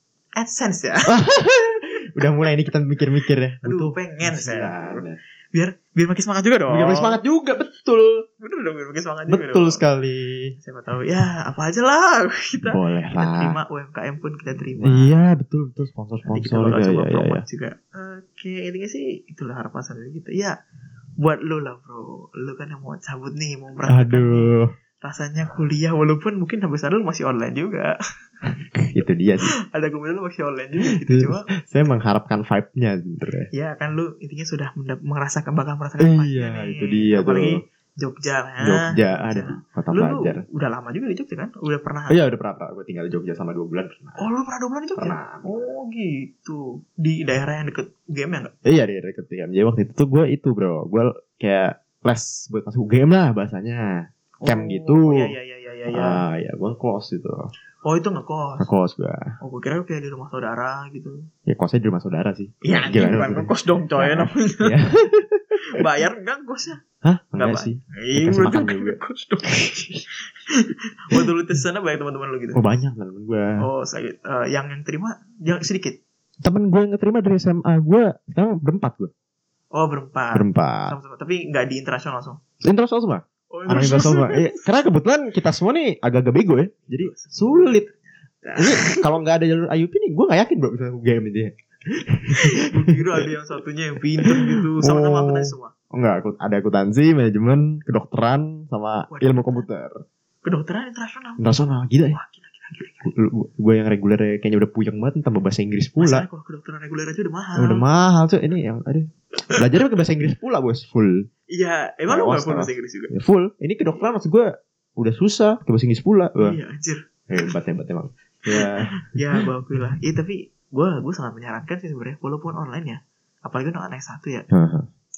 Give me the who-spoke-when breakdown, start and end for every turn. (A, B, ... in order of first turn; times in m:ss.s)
0:00.4-0:01.1 A
0:01.1-0:05.2 B
0:03.6-0:07.2 A
0:06.7-0:08.2 B
0:08.4-0:09.8 A
0:09.3-0:10.6 B
0:10.6-0:15.2 A
0:12.6-0:13.6 B
0:14.8-0:17.4 B
0:16.3-0:20.6 A
0:21.2-0:28.0 A
0:23.9-0:24.7 B
0:28.9-0:29.5 B
0:29.6-0:31.5 A
0:30.9-0:33.5 B
0:33.5-0:42.2 A
0:36.0-0:37.6 B
0:38.6-0:40.4 B
0:42.1-0:44.3 B
0:44.2-0:48.5 A
0:45.0-0:45.5 B
0:48.6-0:55.3 B
0:54.4-0:56.2 A
0:55.9-0:57.5 B
0:57.8-0:58.7 A
0:58.6-0:59.4 B
0:59.4-1:01.3 A
1:01.5-1:05.5 B
1:02.6-1:04.8 A
1:05.7-1:06.8 A
1:07.0-1:09.0 B
1:07.3-1:12.6 A
1:12.5-1:13.6 B
1:13.6-1:16.0 A
1:16.4-1:19.1 B
1:19.7-1:22.4 A
1:20.3-1:21.0 B
1:22.6-1:27.9 B
1:23.5-1:24.6 A
1:26.9-1:29.0 A
1:28.6-1:32.9 B
1:32.4-1:35.7 A
1:34.2-1:39.9 B
1:39.1-1:39.7 A
1:40.4-1:43.1 A
1:41.4-1:42.2 B
1:43.0-1:46.3 B
1:46.0-1:47.9 A
1:47.6-1:51.3 B
1:51.5-1:53.1 A
1:52.1-1:56.6 B
1:56.4-1:57.5 A
1:57.3-1:58.9 B
1:58.6-2:04.5 A
2:04.5-2:04.9 B